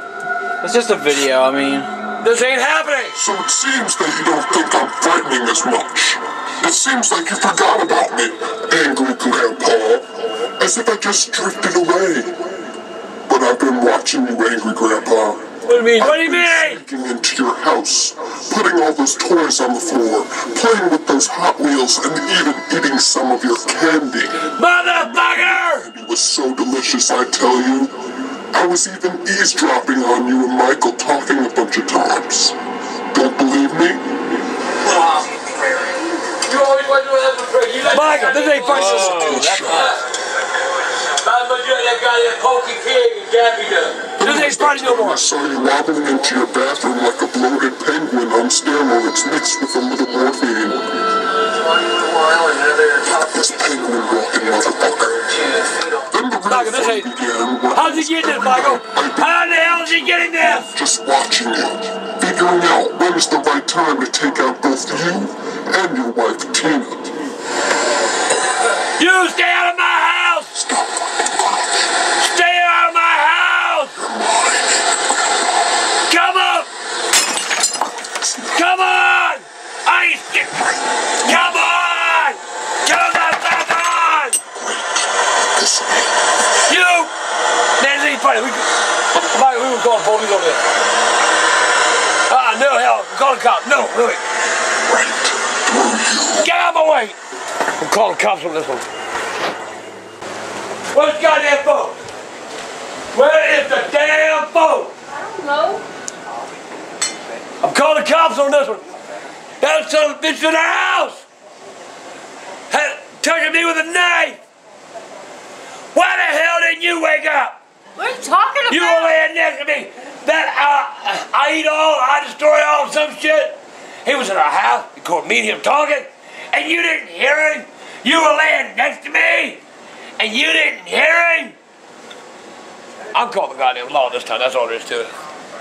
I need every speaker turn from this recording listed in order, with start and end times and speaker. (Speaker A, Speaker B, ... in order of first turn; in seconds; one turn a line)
Speaker A: 0.6-1.9
Speaker B: 2.2-3.2
Speaker C: 3.2-10.1
Speaker C: 10.6-12.3
Speaker C: 13.3-27.9
Speaker B: 15.6-16.8
Speaker B: 24.5-25.9
Speaker C: 28.5-32.5
Speaker C: 33.1-34.0
Speaker B: 36.5-40.0
Speaker A: 38.6-39.9
Speaker C: 39.0-39.9
Speaker B: 41.2-45.2
Speaker C: 44.2-50.8
Speaker B: 52.4-53.0
Speaker C: 53.1-55.2
Speaker C: 56.1-67.2
Speaker B: 56.5-57.1
Speaker B: 57.7-60.7
Speaker B: 68.7-70.5
Speaker C: 70.6-71.7
Speaker B: 72.2-73.9
Speaker C: 74.0-74.8
Speaker B: 76.1-76.7
Speaker C: 78.1-78.6
Speaker B: 78.5-84.4
Speaker C: 84.5-86.2
Speaker B: 86.7-87.1
Speaker B: 87.8-88.7
Speaker B: 89.2-90.6
Speaker B: 92.3-94.2
Speaker C: 94.9-96.5
Speaker B: 96.4-97.2
Speaker B: 97.8-98.8
Speaker B: 100.9-102.0
Speaker B: 103.1-104.9
Speaker D: 105.1-105.8
Speaker B: 107.6-108.8
Speaker B: 109.6-111.2
Speaker B: 112.7-114.4
Speaker B: 115.9-117.6
Speaker D: 118.0-119.2
Speaker B: 118.7-129.6
Speaker B: 130.2-131.6
Speaker B: 133.1-135.1